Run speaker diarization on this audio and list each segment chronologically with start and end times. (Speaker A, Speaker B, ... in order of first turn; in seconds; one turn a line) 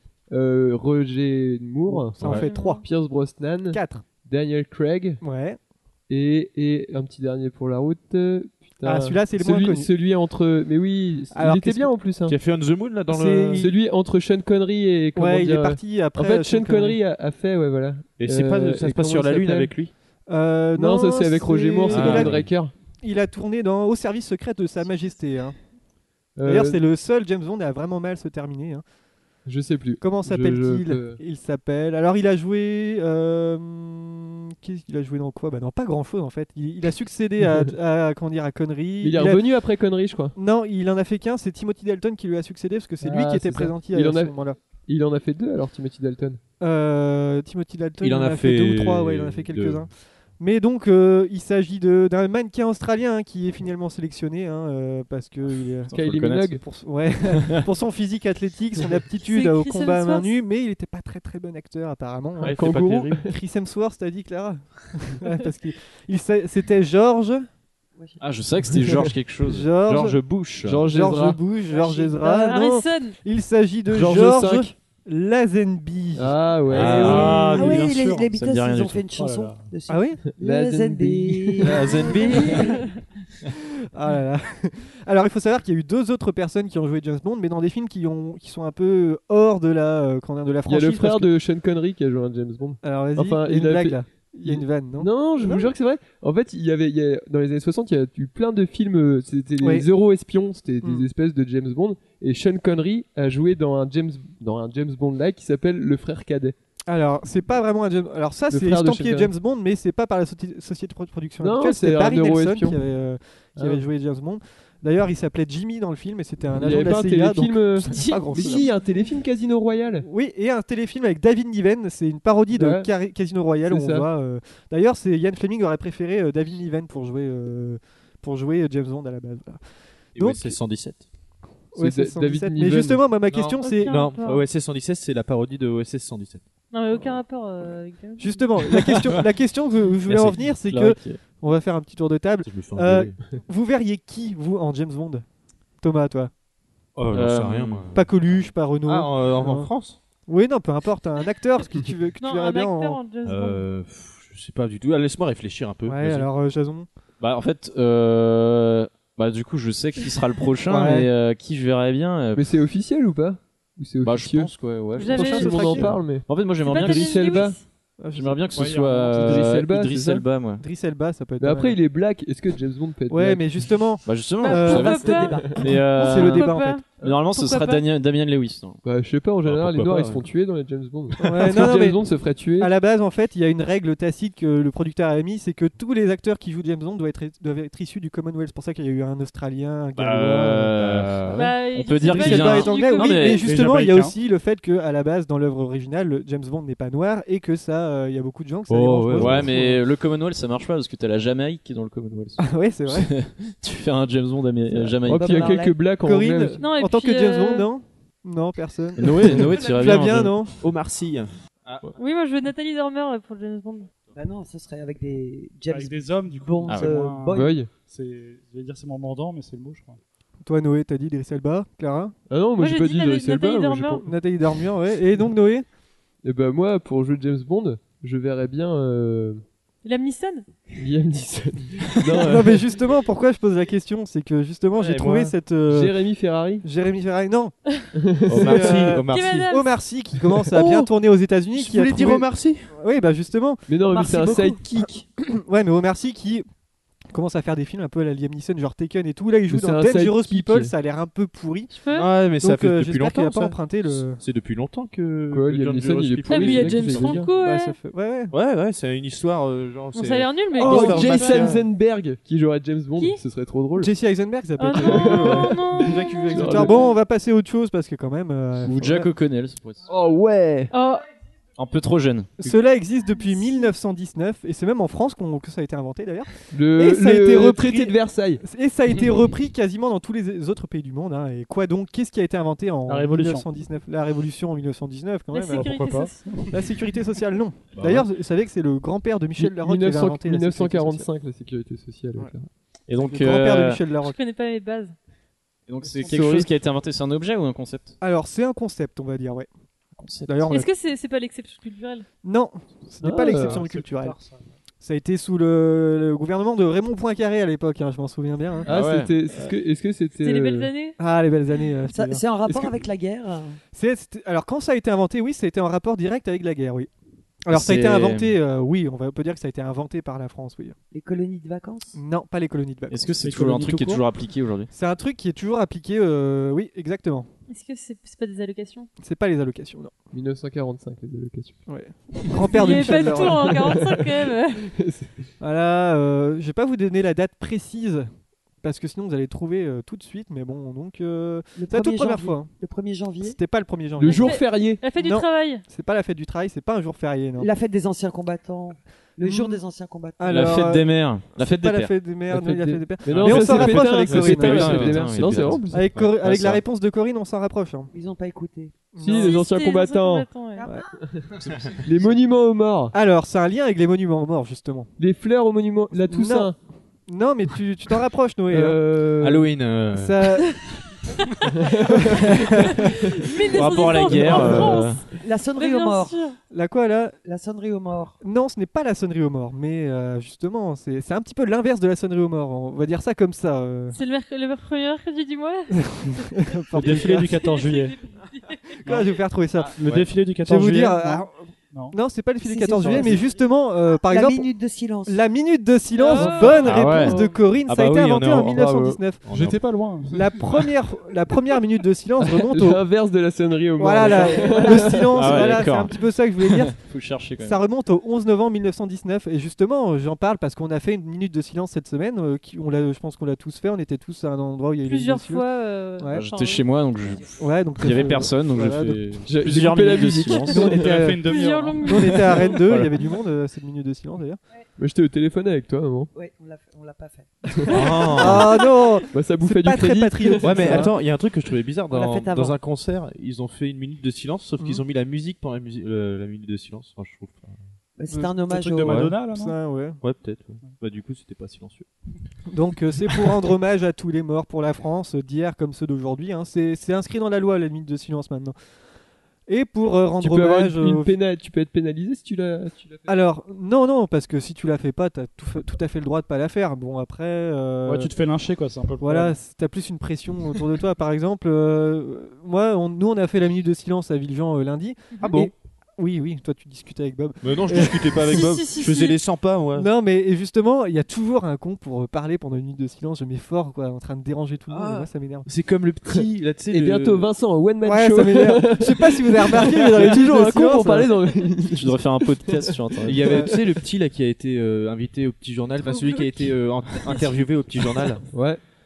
Speaker A: 0.3-5.2
Speaker B: 1.9-2.8
Speaker C: 2.3-2.8
Speaker B: 3.7-4.0
Speaker B: 5.2-5.6
Speaker A: 6.1-12.3
Speaker B: 8.8-9.9
Speaker B: 11.3-11.9
Speaker D: 12.2-13.7
Speaker B: 13.1-13.7
Speaker A: 13.5-19.7
Speaker B: 15.2-17.0
Speaker D: 18.2-19.9
Speaker B: 20.3-22.4
Speaker A: 20.7-22.7
Speaker D: 21.9-22.5
Speaker B: 23.0-25.6
Speaker A: 26.4-26.8
Speaker B: 26.4-28.8
Speaker A: 29.4-31.2
Speaker B: 30.0-39.4
Speaker A: 39.0-40.4
Speaker B: 40.3-44.6
Speaker A: 43.0-44.3
Speaker A: 44.9-46.4
Speaker B: 46.6-55.9
Speaker D: 48.0-49.8
Speaker E: 55.9-56.6
Speaker A: 55.9-56.6
Speaker B: 56.6-62.6
Speaker E: 57.3-57.6
Speaker C: 59.2-60.4
Speaker D: 62.4-63.2
Speaker A: 62.4-63.3
Speaker B: 63.2-67.5
Speaker E: 68.2-70.9
Speaker B: 69.4-70.2
Speaker D: 70.0-70.9
Speaker B: 70.8-77.9
Speaker A: 70.9-71.4
Speaker F: 71.7-72.3
Speaker C: 72.2-73.2
Speaker A: 74.0-74.7
Speaker A: 76.2-77.3
Speaker D: 76.7-77.5
Speaker G: 76.9-78.3
Speaker F: 77.5-82.8
Speaker E: 78.3-79.0
Speaker G: 79.1-79.7
Speaker B: 79.9-80.2
Speaker A: 80.3-82.0
Speaker D: 81.6-82.8
Speaker C: 82.1-82.9
Speaker B: 83.9-91.3
Speaker A: 90.7-106.5
Speaker B: 92.8-95.7
Speaker B: 99.6-99.9
Speaker B: 100.8-101.1
Speaker B: 106.9-118.7
Speaker A: 108.5-109.3
Speaker A: 111.4-112.8
Speaker A: 113.5-113.8
Speaker A: 116.5-120.1
Speaker B: 120.0-129.6
Speaker A: 122.5-122.9
Speaker A: 123.7-124.1
Speaker D: 130.2-131.1
Speaker B: 130.2-130.6
Speaker B: 131.7-134.0
Speaker A: 131.8-133.0
Speaker D: 133.3-136.4
Speaker C: 133.6-134.5
Speaker C: 136.7-138.5
Speaker B: 138.2-145.2
Speaker E: 140.1-141.2
Speaker D: 142.4-143.2
Speaker B: 145.8-146.3
Speaker D: 146.9-150.0
Speaker E: 147.1-147.9
Speaker B: 147.9-149.7
Speaker B: 150.3-153.0
Speaker C: 152.2-153.6
Speaker D: 153.2-156.3
Speaker B: 155.8-156.9
Speaker E: 157.2-162.6
Speaker B: 160.7-161.1
Speaker A: 162.3-164.5
Speaker E: 164.0-167.4
Speaker C: 165.0-165.7
Speaker B: 165.0-165.9
Speaker A: 165.3-167.6
Speaker C: 166.6-167.6
Speaker B: 168.0-168.7
Speaker E: 168.1-170.6
Speaker G: 168.5-169.4
Speaker A: 169.1-170.2
Speaker B: 170.6-171.8
Speaker A: 171.4-173.6
Speaker B: 173.1-175.4
Speaker E: 174.1-178.8
Speaker C: 174.4-177.8
Speaker F: 174.7-175.6
Speaker B: 175.9-176.8
Speaker A: 178.8-182.7
Speaker D: 179.4-180.3
Speaker B: 181.2-182.0
Speaker B: 182.6-190.7
Speaker E: 190.0-193.4
Speaker D: 190.0-191.5
Speaker C: 191.3-193.6
Speaker B: 192.1-199.8
Speaker G: 193.3-194.1
Speaker D: 198.7-199.5
Speaker E: 199.2-205.6
Speaker B: 202.4-203.1
Speaker F: 205.0-205.8
Speaker A: 205.0-206.6
Speaker B: 206.0-210.6
Speaker C: 206.6-207.7
Speaker E: 209.0-210.3
Speaker D: 210.6-211.9
Speaker C: 211.9-213.9
Speaker F: 214.1-217.5
Speaker G: 215.7-220.0
Speaker E: 216.7-216.9
Speaker A: 217.3-217.7
Speaker B: 220.4-222.1
Speaker A: 222.3-224.1
Speaker C: 222.6-224.0
Speaker B: 224.0-225.7
Speaker A: 226.2-229.4
Speaker C: 229.8-230.4
Speaker A: 230.8-232.6
Speaker B: 232.1-236.0
Speaker D: 234.7-235.3
Speaker A: 235.7-236.7
Speaker B: 236.6-237.5
Speaker A: 238.0-238.4
Speaker D: 238.3-239.5
Speaker B: 238.4-246.4
Speaker C: 238.5-239.7
Speaker D: 240.5-240.9
Speaker D: 241.5-242.7
Speaker A: 243.7-245.0
Speaker B: 247.1-251.8
Speaker A: 249.5-250.7
Speaker C: 251.7-252.1
Speaker D: 251.9-257.2
Speaker B: 252.3-254.2
Speaker A: 255.3-257.3
Speaker C: 256.2-257.8
Speaker B: 257.3-258.3
Speaker D: 258.3-261.6
Speaker C: 259.9-261.5
Speaker A: 260.6-263.9
Speaker B: 260.6-261.1
Speaker B: 263.8-269.1
Speaker C: 264.6-266.9
Speaker A: 264.8-265.7
Speaker A: 266.3-266.9
Speaker E: 268.6-269.8
Speaker A: 269.9-270.7
Speaker C: 270.7-271.1
Speaker E: 271.6-272.5
Speaker B: 272.4-285.9
Speaker C: 273.3-273.7
Speaker A: 276.5-278.4
Speaker G: 282.9-283.5
Speaker C: 285.3-286.4
Speaker G: 285.5-286.5
Speaker B: 286.5-291.1
Speaker D: 287.7-288.1
Speaker A: 289.4-292.5
Speaker E: 292.9-293.8
Speaker B: 293.0-294.1
Speaker C: 294.0-294.9
Speaker E: 295.7-297.9
Speaker G: 295.8-296.4
Speaker A: 296.1-296.4
Speaker B: 298.0-299.5
Speaker E: 299.9-300.6
Speaker B: 300.3-300.7
Speaker C: 300.5-302.1
Speaker B: 302.2-304.2
Speaker A: 303.0-303.6
Speaker G: 303.1-304.4
Speaker B: 304.8-308.7
Speaker A: 308.6-310.7
Speaker E: 308.7-309.1
Speaker C: 310.2-310.9
Speaker B: 311.0-312.7
Speaker F: 311.9-313.6
Speaker B: 313.7-316.9
Speaker B: 317.4-320.8
Speaker E: 317.5-318.3
Speaker F: 320.9-322.0
Speaker B: 321.9-323.1
Speaker E: 322.9-324.7
Speaker G: 323.2-324.0
Speaker B: 324.7-327.3
Speaker C: 327.5-328.9
Speaker B: 329.0-329.9
Speaker A: 330.1-331.6
Speaker B: 331.7-333.8
Speaker A: 332.4-335.2
Speaker C: 332.4-334.6
Speaker B: 335.4-338.1
Speaker B: 338.6-342.5
Speaker F: 341.6-343.4
Speaker B: 343.2-344.4
Speaker A: 344.0-344.8
Speaker C: 344.0-345.6
Speaker B: 345.0-347.5
Speaker F: 347.4-350.3
Speaker B: 349.2-349.6
Speaker B: 350.2-354.8
Speaker E: 350.3-351.9
Speaker A: 352.3-355.9
Speaker D: 353.1-356.6
Speaker E: 354.1-355.6
Speaker B: 355.7-357.9
Speaker F: 357.9-358.7
Speaker B: 358.9-359.4
Speaker A: 359.0-360.3
Speaker C: 359.1-360.7
Speaker D: 361.4-362.1
Speaker A: 361.8-362.9
Speaker B: 362.9-364.9
Speaker A: 365.0-366.6
Speaker B: 366.0-366.5
Speaker B: 367.1-368.8
Speaker A: 368.5-369.5
Speaker D: 369.2-370.2
Speaker B: 369.9-370.6
Speaker A: 371.4-372.3
Speaker B: 371.9-372.8
Speaker C: 372.6-376.4
Speaker E: 373.5-375.0
Speaker F: 374.3-376.2
Speaker B: 376.5-377.2
Speaker F: 377.2-378.2
Speaker B: 378.2-384.0
Speaker C: 383.9-388.8
Speaker B: 385.7-387.5
Speaker G: 386.7-388.0
Speaker B: 388.9-389.8
Speaker G: 389.7-392.0
Speaker D: 389.8-390.1
Speaker B: 390.4-391.3
Speaker B: 391.9-394.5
Speaker F: 392.4-393.3
Speaker G: 392.8-393.1
Speaker F: 394.0-395.2
Speaker B: 395.1-399.2
Speaker C: 395.9-397.4
Speaker D: 396.6-399.9
Speaker A: 398.5-399.0
Speaker G: 399.3-400.4
Speaker B: 400.1-402.8
Speaker A: 402.4-405.3
Speaker B: 403.8-406.8
Speaker E: 405.1-407.6
Speaker B: 407.4-415.4
Speaker C: 414.8-416.6
Speaker B: 416.0-416.2
Speaker E: 416.1-420.7
Speaker B: 417.4-419.0
Speaker A: 419.2-420.9
Speaker B: 420.5-424.4
Speaker G: 420.6-422.2
Speaker C: 421.2-422.7
Speaker A: 424.8-426.1
Speaker F: 426.1-428.4
Speaker D: 427.7-428.5
Speaker B: 427.7-430.9
Speaker A: 429.1-430.9
Speaker D: 430.4-437.6
Speaker F: 431.9-432.6
Speaker F: 437.9-439.1
Speaker B: 438.1-438.4
Speaker G: 438.4-439.6
Speaker D: 438.9-439.2
Speaker B: 439.1-440.0
Speaker D: 440.0-441.9
Speaker B: 442.5-448.5
Speaker B: 449.5-451.1
Speaker A: 450.2-453.1
Speaker B: 453.1-458.1
Speaker G: 457.9-459.4
Speaker B: 459.0-468.4
Speaker D: 465.2-465.5
Speaker D: 467.4-469.9
Speaker C: 468.1-469.2
Speaker B: 469.8-475.5
Speaker D: 474.7-477.3
Speaker A: 476.7-482.0
Speaker B: 477.8-481.1
Speaker E: 481.7-483.3
Speaker D: 483.1-488.2
Speaker B: 483.2-483.5
Speaker A: 488.3-488.6